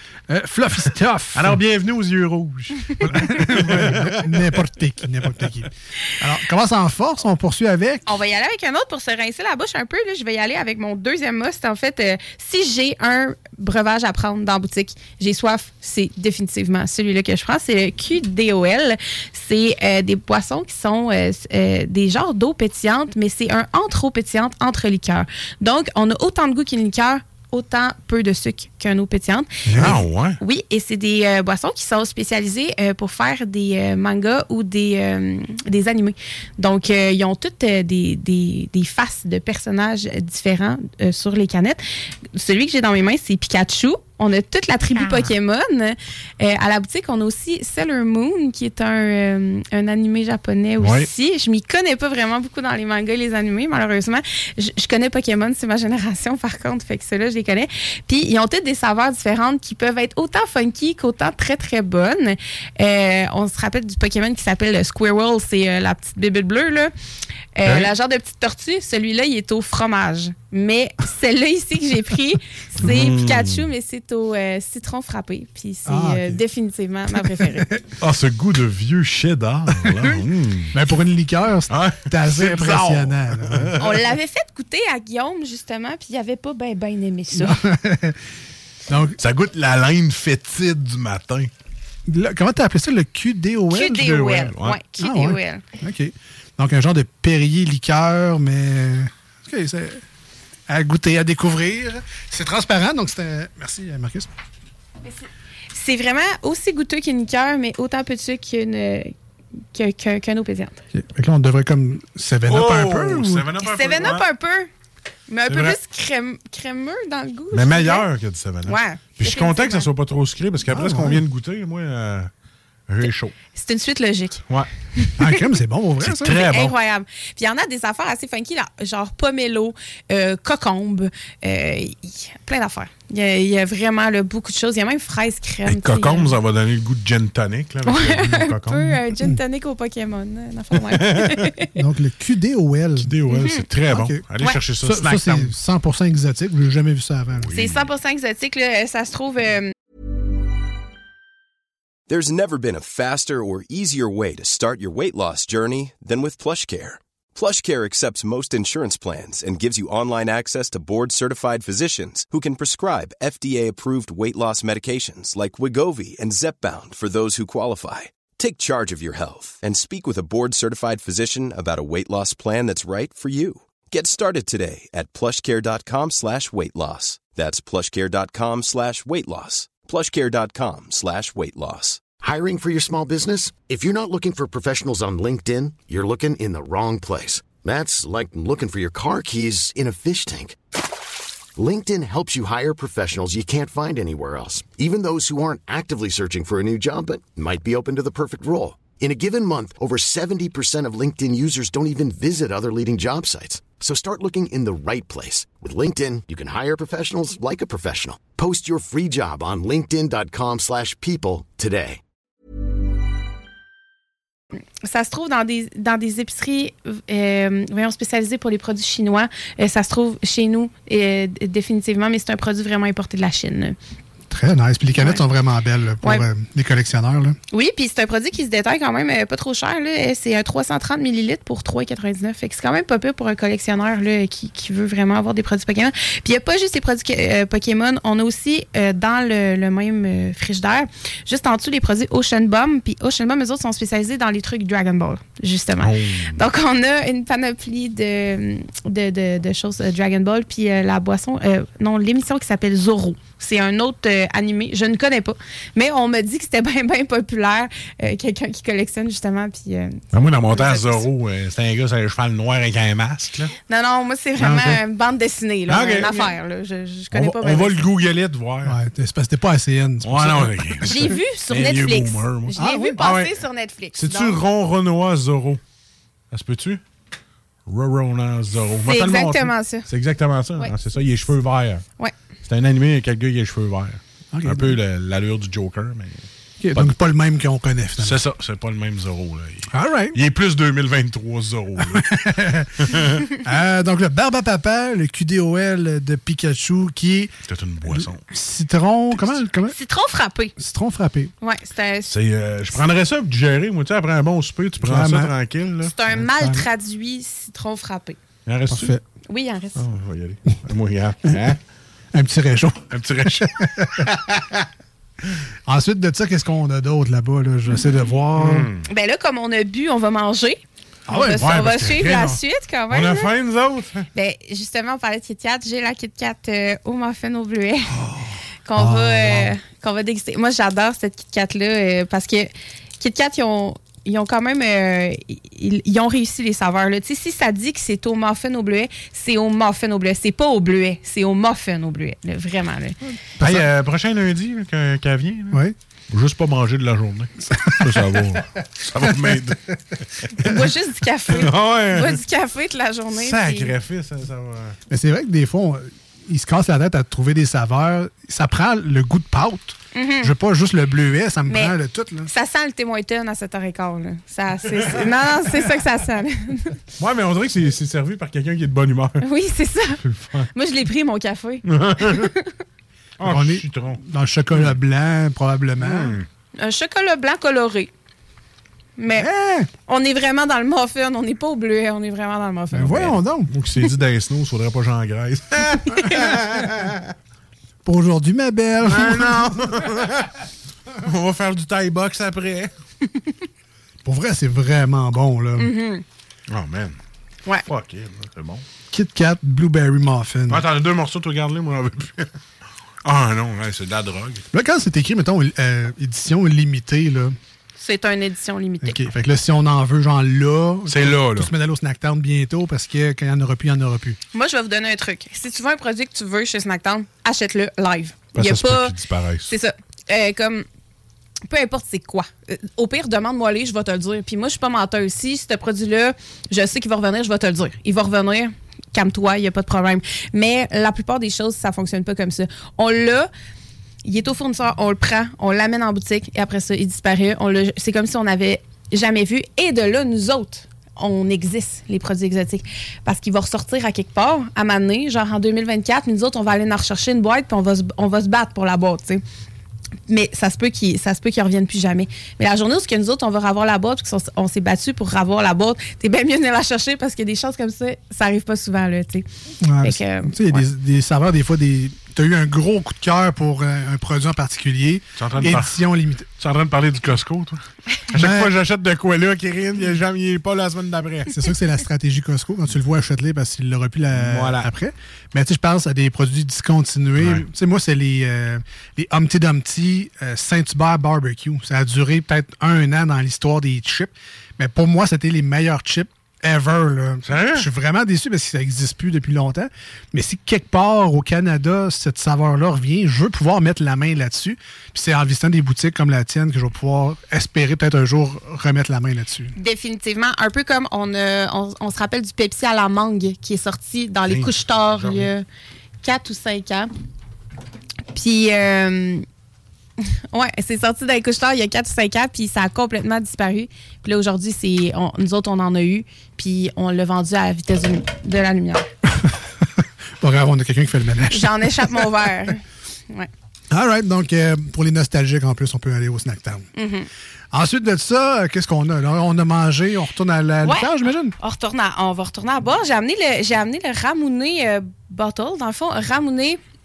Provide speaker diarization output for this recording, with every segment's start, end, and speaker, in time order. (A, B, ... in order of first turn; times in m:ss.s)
0:00.3-0:01.6 A
0:01.3-0:04.6 B
0:03.0-0:08.0 A
0:08.1-0:41.8 C
0:29.7-0:30.0 A
0:29.8-0:30.4 B
0:42.3-1:06.9 C
0:50.8-0:51.1 B
1:07.6-1:17.7 C
1:12.8-1:13.7 B
1:15.9-1:16.4 A
1:17.1-1:17.8 A
1:18.0-1:20.8 B
1:19.7-1:23.8 A
1:21.7-1:24.0 B
1:23.8-1:27.6 C
1:27.3-1:28.2 A
1:28.9-1:29.2 A
1:29.2-1:31.5 B
1:32.1-1:34.4 A
1:33.7-1:35.6 C
1:34.0-1:34.8 B
1:35.0-1:40.0 A
1:40.7-1:44.3 A
1:45.7-1:49.1 C
1:49.7-1:50.8 C
1:50.9-1:53.5 A
1:52.5-1:54.3 B
1:53.6-1:54.7 C
1:55.3-1:58.1 C
1:55.5-1:55.8 B
1:57.5-2:02.3 B
1:58.6-1:59.9 C
2:00.7-2:01.2 A
2:02.9-2:03.3 B
2:03.5-2:04.4 C
2:05.0-2:05.4 C
2:05.2-2:06.5 A
2:06.0-2:06.8 B
2:06.3-2:16.3 C
2:15.7-2:19.0 B
2:17.9-2:21.7 C
2:20.9-2:21.5 B
2:21.8-2:23.2 A
2:23.0-2:25.5 B
2:23.3-2:23.6 C
2:23.9-2:24.2 A
2:24.8-2:27.5 A
2:27.4-2:27.9 B
2:27.5-2:29.7 C
2:32.1-3:02.1 D
3:02.2-3:10.6 E
3:11.6-3:32.0 E
3:34.8-3:43.8 C
3:44.3-3:47.4 A
3:45.0-3:45.2 C
3:47.5-4:21.1 C
4:05.8-4:06.4 B
4:20.1-4:23.5 B
4:23.7-4:27.9 C
4:24.4-4:24.8 B
4:25.7-4:26.3 B
4:27.1-4:28.8 B
4:28.6-4:31.1 A
4:30.0-4:33.4 B
4:30.8-4:34.4 C
4:32.6-4:33.0 A
4:34.0-4:35.6 B
4:36.3-4:36.8 B
4:37.7-4:41.8 B
4:38.9-4:39.9 C
4:42.4-4:46.9 B
4:44.3-4:44.8 A
4:46.6-4:48.2 A
4:48.0-4:52.2 B
4:49.7-4:50.2 A
4:51.8-4:57.4 A
4:52.8-4:53.2 B
4:57.5-4:58.2 B
4:57.9-4:59.8 A
4:59.7-5:00.5 C
5:00.6-5:01.3 A
5:01.4-5:02.1 C
5:02.1-5:06.0 B
5:04.8-5:05.3 A
5:05.9-5:08.2 C
5:06.2-5:06.7 A
5:08.5-5:08.9 B
5:08.7-5:09.0 A
5:09.3-5:09.8 C
5:09.8-5:11.6 B
5:12.1-5:14.1 A
5:12.9-5:14.6 B
5:15.7-5:18.7 A
5:18.4-5:18.9 B
5:18.9-5:20.6 C
5:21.1-5:21.8 A
5:21.1-5:23.3 C
5:21.2-5:24.1 B
5:24.1-5:28.0 C
5:27.9-5:29.6 A
5:28.7-5:43.0 C
5:43.4-5:43.7 A
5:43.4-5:49.6 B
5:47.5-5:48.4 A
5:49.0-5:49.4 A
5:50.2-5:50.6 B
5:50.4-5:53.7 C
5:51.3-5:52.2 B
5:53.1-5:54.8 B
5:54.9-6:02.3 A
5:59.9-6:00.3 C
6:01.5-6:01.8 C
6:02.3-6:06.8 C
6:04.9-6:05.2 B
6:07.0-6:09.2 B
6:09.2-6:10.0 C
6:10.0-6:10.5 B
6:10.5-6:12.5 C
6:11.7-6:12.3 B
6:13.2-6:14.0 B
6:13.2-6:16.2 A
6:15.8-6:16.3 B
6:16.6-6:17.9 C
6:19.0-6:19.3 C
6:19.1-6:19.7 A
6:19.9-6:23.2 C
6:22.7-6:23.5 A
6:23.5-6:27.1 B
6:27.8-6:29.9 A
6:28.9-6:30.3 B
6:31.0-6:32.7 B
6:34.0-6:35.7 A
6:35.6-6:36.0 C
6:36.5-6:37.0 B
6:37.6-6:38.6 B
6:38.9-6:40.6 A
6:40.5-6:42.3 B
6:43.0-6:44.4 B
6:44.5-6:47.4 A
6:47.8-6:49.0 C
6:48.8-6:54.2 A
6:50.9-6:51.5 B
6:54.3-6:58.9 C
6:58.4-6:59.5 B
6:59.5-7:00.6 C
7:01.5-7:13.3 C
7:14.0-7:29.2 C
7:30.1-7:39.3 C
7:39.6-7:46.3 A
7:39.8-7:40.6 C
7:45.2-7:45.8 B
7:46.4-7:51.4 B
7:48.1-7:48.5 A
7:51.3-8:19.6 A
7:54.1-7:54.7 B
7:57.2-7:57.5 B
8:07.3-8:07.7 B
8:19.6-8:25.5 C
8:24.3-8:25.2 B
8:26.0-8:26.9 C
8:28.1-8:29.2 C
8:30.0-8:38.9 C
8:40.2-8:42.3 A
8:41.3-8:43.3 C
8:43.7-8:46.7 A
8:46.8-8:47.1 C
8:47.5-8:51.4 A
8:50.6-8:56.6 C